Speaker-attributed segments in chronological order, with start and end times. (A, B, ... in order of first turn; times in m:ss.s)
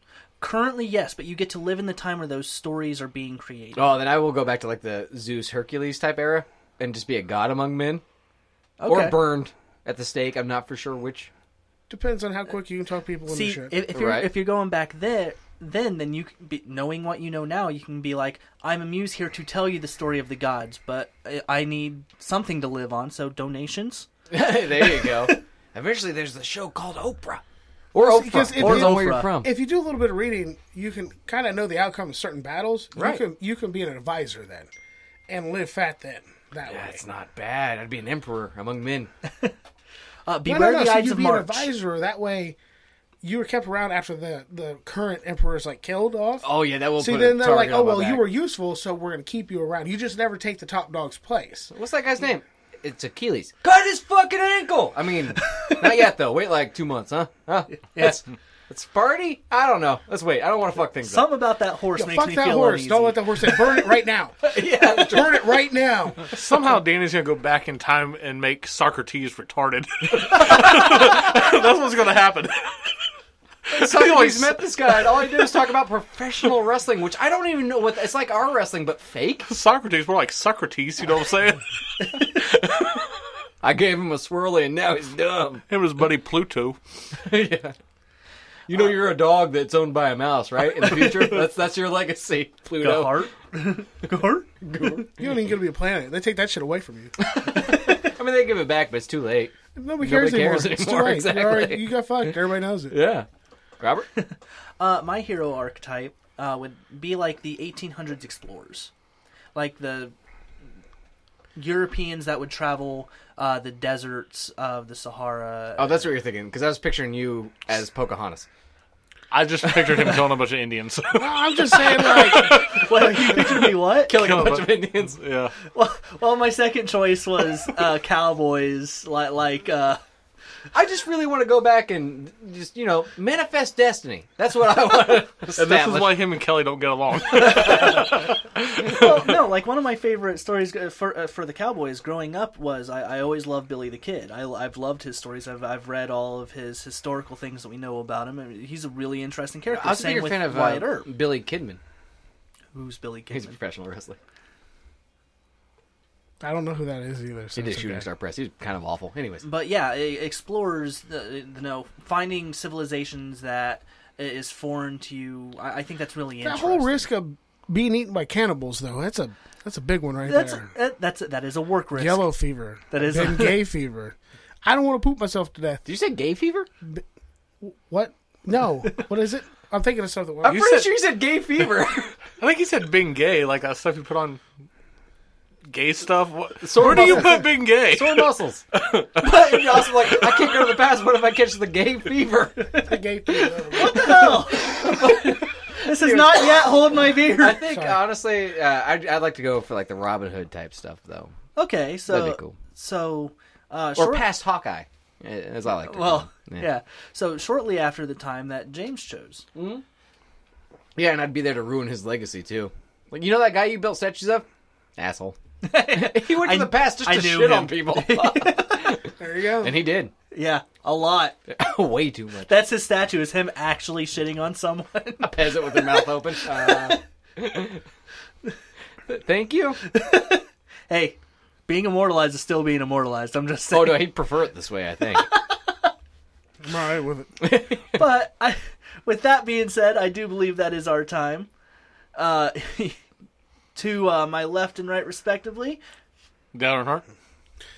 0:00.4-0:03.9 A
0:03.7-0:08.0 B
0:08.8-0:09.2 A
0:08.8-0:11.3 B
0:11.9-0:13.8 C
0:13.3-0:24.1 A
0:13.9-0:14.3 B
0:24.3-0:27.4 B
0:24.8-0:25.3 A
0:27.9-0:29.5 B
0:28.0-0:34.7 C
0:28.6-0:29.3 A
0:32.9-0:33.2 B
0:35.3-0:37.0 C
0:36.6-0:39.1 B
0:40.2-0:41.7 A
0:40.4-0:42.6 C
0:43.2-0:46.4 C
0:46.4-0:48.2 B
0:47.0-0:51.7 C
0:51.7-1:01.3 B
0:55.4-0:55.9 A
0:57.9-0:58.2 A
1:01.0-1:03.9 A
1:02.0-1:06.4 C
1:04.5-1:05.5 B
1:06.3-1:12.9 D
1:13.7-1:19.5 B
1:13.7-1:15.1 D
1:19.5-1:23.0 D
1:23.6-1:25.6 B
1:25.7-1:26.8 D
1:27.1-1:27.7 B
1:28.7-1:33.2 B
1:31.0-1:31.3 A
1:32.8-1:34.5 A
1:34.6-1:35.3 B
1:35.1-1:37.2 C
1:37.2-1:42.4 B
1:39.7-1:42.9 C
1:42.9-1:43.3 B
1:43.8-1:44.1 B
1:44.2-1:48.9 A
1:49.5-1:50.1 A
1:51.6-1:56.1 A
1:55.8-1:58.5 B
1:59.3-2:03.6 D
1:59.6-2:00.2 B
2:01.1-2:03.0 C
2:02.5-2:04.2 A
2:03.1-2:05.2 B
2:04.1-2:05.5 D
2:05.6-2:10.0 A
2:10.7-2:16.2 B
2:15.6-2:19.4 D
2:17.4-2:18.2 B
2:17.7-2:18.1 A
2:18.9-2:31.1 A
2:29.7-2:31.8 B
2:32.7-2:33.6 A
2:33.3-2:34.2 B
2:36.4-2:38.0 C
2:37.5-2:39.4 B
2:39.4-2:47.1 A
2:46.4-2:50.7 C
2:50.2-2:52.2 A
2:51.9-2:55.8 C
2:52.9-2:53.6 A
2:55.8-2:56.7 B
2:57.6-3:00.6 C
3:00.4-3:02.2 B
3:00.4-3:00.9 D
3:02.4-3:04.4 D
3:05.6-3:10.4 D
3:06.6-3:12.8 B
3:12.7-3:14.2 C
3:13.7-3:16.7 B
3:13.7-3:17.6 A
3:17.3-3:21.3 B
3:17.7-3:18.0 C
3:21.6-3:24.2 A
3:22.1-3:22.6 B
3:24.0-3:26.7 B
3:25.8-3:29.4 A
3:29.5-3:29.8 B
3:31.0-3:34.4 B
3:35.0-3:40.1 B
3:35.6-3:39.0 A
3:39.2-3:39.8 C
3:40.3-3:41.4 A
3:41.5-3:42.5 B
3:42.5-3:47.0 A
3:45.2-3:47.8 B
3:49.1-3:49.8 B
3:49.8-3:54.1 A
3:53.7-3:55.3 B
3:56.6-3:57.4 C
3:57.4-3:58.0 B
3:57.9-4:01.5 A
4:02.1-4:03.0 A
4:03.7-4:05.8 A
4:06.5-4:07.0 D